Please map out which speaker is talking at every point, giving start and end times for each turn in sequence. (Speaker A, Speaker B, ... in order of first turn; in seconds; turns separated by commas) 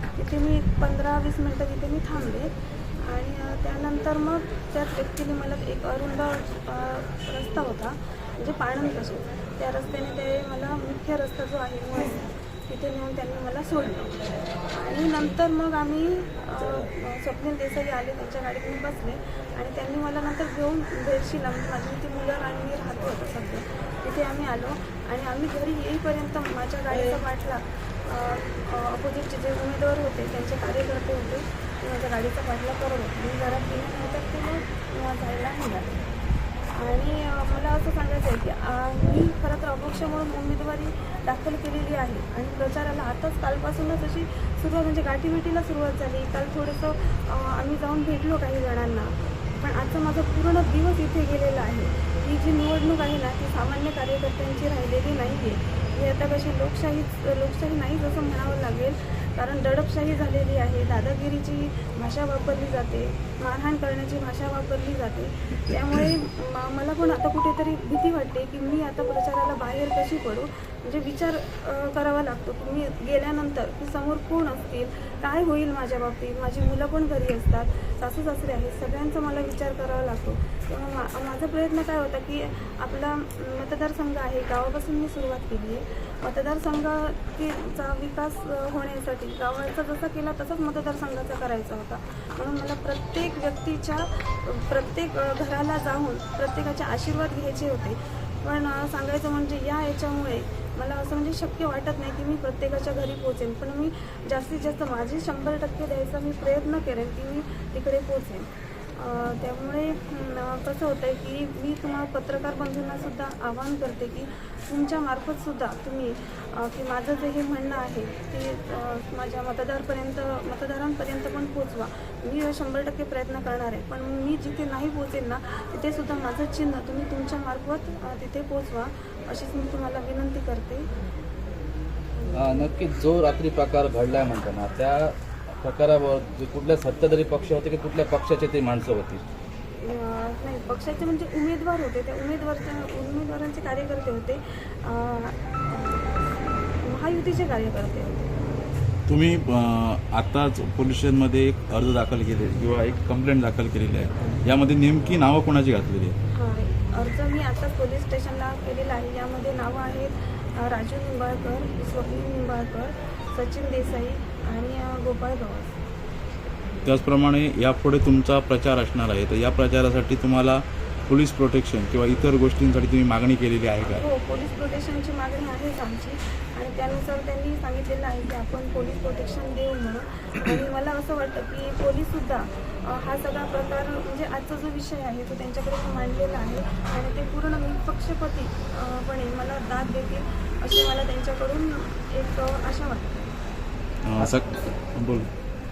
Speaker A: 0.1-14.2, Speaker A: 14.7-36.0, Speaker A: 36.8-130.9, Speaker B: 132.3-139.2, Speaker A: 139.8-148.3, Speaker C: 149.1-156.2, Speaker A: 156.3-165.8, Speaker C: 166.8-174.1, Speaker A: 173.9-193.3, Speaker C: 194.1-195.3